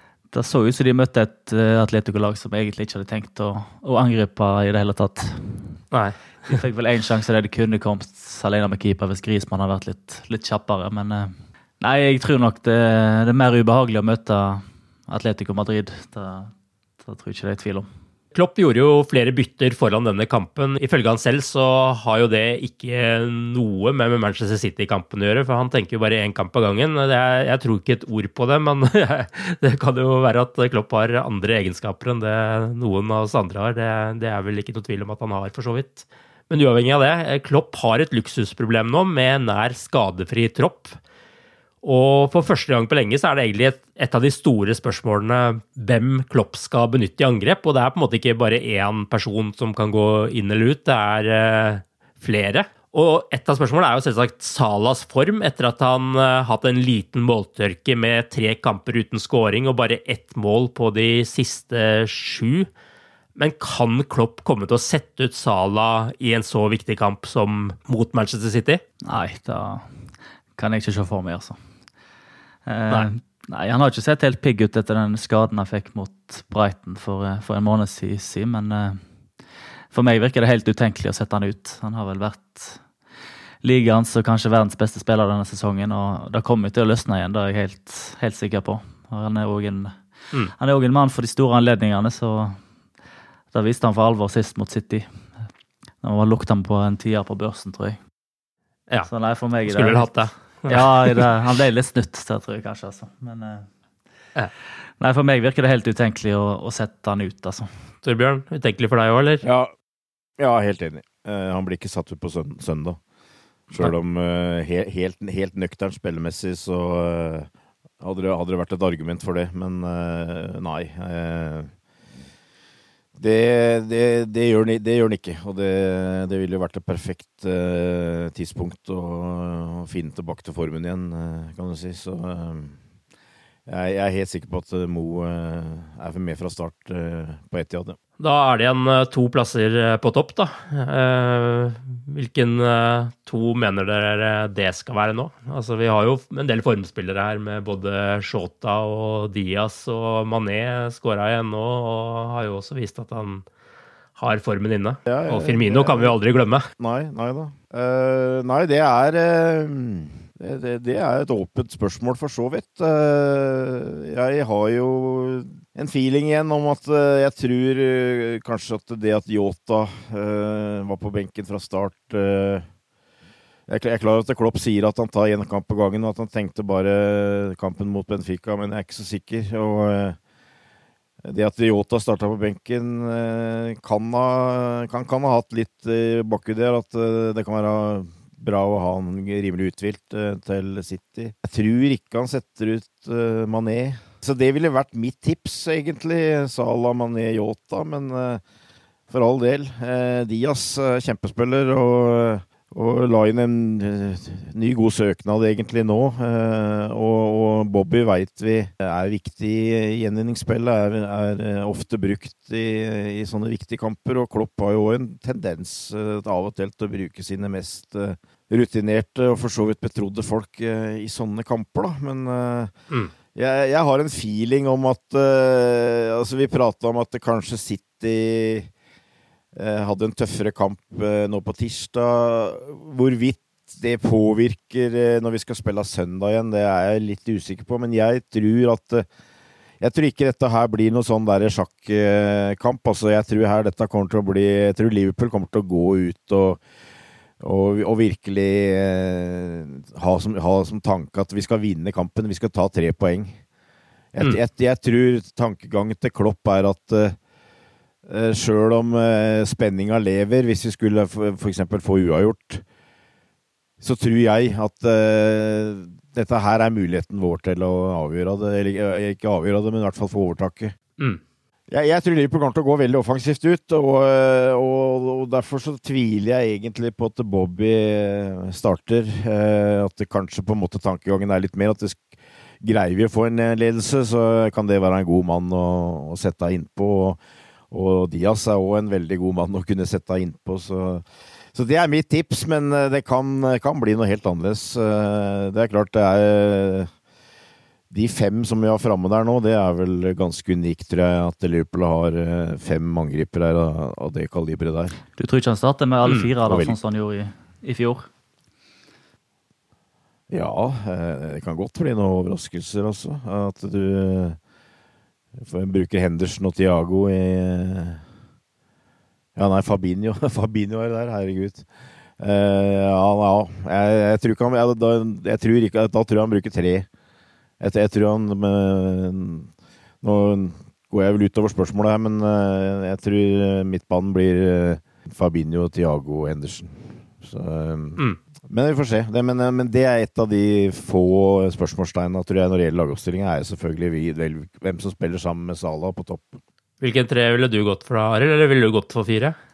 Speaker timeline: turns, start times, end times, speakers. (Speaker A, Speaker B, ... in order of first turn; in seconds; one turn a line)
Speaker A: 0.3-5.8
Speaker B: 5.9-6.6
Speaker A: 6.5-17.9
Speaker B: 18.3-41.0
Speaker B: 41.8-62.7
Speaker B: 63.4-68.8
Speaker A: 69.0-71.6
Speaker A: 72.7-79.0
Speaker A: 79.9-82.8
Speaker A: 83.6-90.0
Speaker A: 90.6-92.6
Speaker A: 93.5-95.3
Speaker A: 96.0-98.0
Speaker B: 98.9-101.2
Speaker A: 99.1-103.7
Speaker A: 105.0-107.7
Speaker B: 108.0-109.5
Speaker C: 109.4-109.7
Speaker C: 110.4-113.0
Speaker C: 113.7-117.5
Speaker C: 118.0-121.7
Speaker C: 123.2-132.8
Speaker C: 133.7-138.0
Speaker B: 138.2-153.4
Speaker B: 154.2-156.7
Speaker C: 155.1-156.2
Speaker C: 156.8-172.7
Speaker C: 173.7-180.2
Speaker C: 181.2-198.4
Speaker C: 199.1-222.7
Speaker C: 223.3-228.7
Speaker C: 229.6-239.1
Speaker C: 239.8-246.6
Speaker C: 247.4-253.4
Speaker C: 254.1-257.2
Speaker C: 258.1-262.6
Speaker C: 263.8-270.8
Speaker C: 271.7-282.1
Speaker C: 282.6-287.2
Speaker C: 287.7-296.9
Speaker C: 297.9-305.0
Speaker A: 305.2-308.1
Speaker C: 306.4-306.8
Speaker C: 310.3-314.4
Speaker C: 315.4-318.0
Speaker C: 319.4-321.7
Speaker C: 322.2-326.9
Speaker C: 327.6-329.5
Speaker C: 330.0-346.4
Speaker B: 346.8-349.4